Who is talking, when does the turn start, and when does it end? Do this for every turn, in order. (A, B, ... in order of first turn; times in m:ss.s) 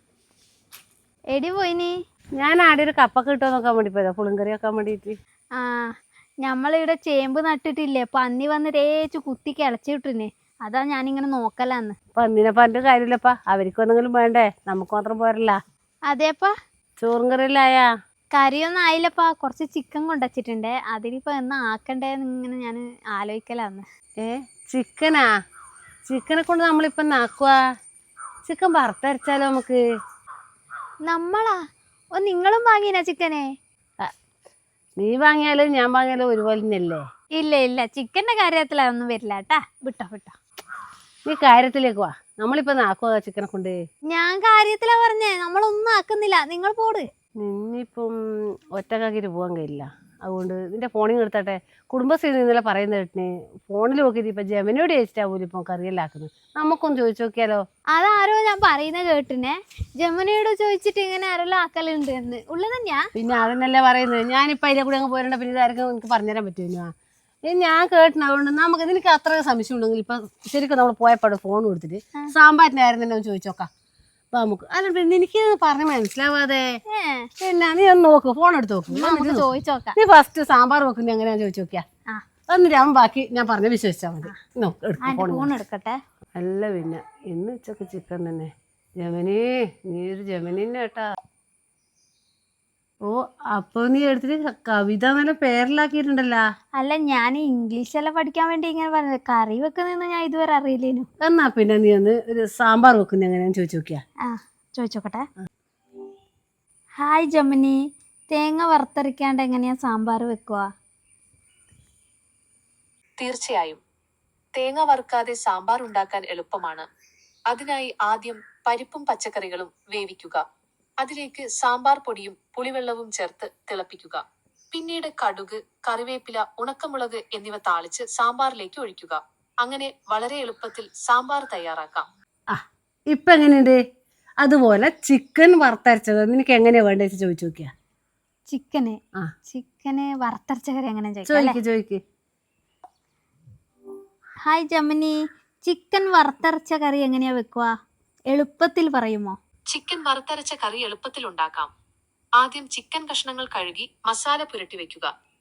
0:01.3-0:01.9 A
0:02.4-0:05.2 B
0:05.6-0:11.9 A
0:12.2-0:15.6 B
0:16.1-0:16.5 A
0:17.0-0:17.8 B
0:18.3-0:23.8 A
0:24.2-0:25.2 B
0:26.1-0:27.5 B
0:28.4-0:29.8 B
0:31.1-0:31.6 A
0:32.1-0:33.4 A
0:35.0-0:37.0 B
0:37.4-0:40.3 A
0:41.3-0:43.8 B
0:44.1-0:47.0 A
0:47.4-0:48.1 B
0:48.7-0:57.6 B
0:57.9-1:03.0 A
1:03.2-1:06.9 B
1:07.4-1:13.7 B
1:14.3-1:16.6 B
1:16.9-1:17.3 A
1:17.4-1:21.8 B
1:18.9-1:20.0 A
1:22.5-1:25.5 B
1:25.0-1:26.0 A
1:26.4-1:31.0 B
1:33.0-1:36.4 B
1:36.8-1:41.1 A
1:41.2-1:44.0 B
1:44.2-1:45.3 A
1:47.0-1:47.8 A
1:48.3-1:50.7 A
1:53.2-1:53.8 C
1:54.5-1:56.8 C
1:57.5-2:00.4 C
2:01.0-2:12.1 C
2:12.5-2:13.8 B
2:14.4-2:17.7 B
2:18.5-2:21.6 A
2:21.3-2:22.0 B
2:24.4-2:27.7 A
2:28.3-2:29.4 A
2:29.7-2:31.7 C
2:32.4-2:35.1 C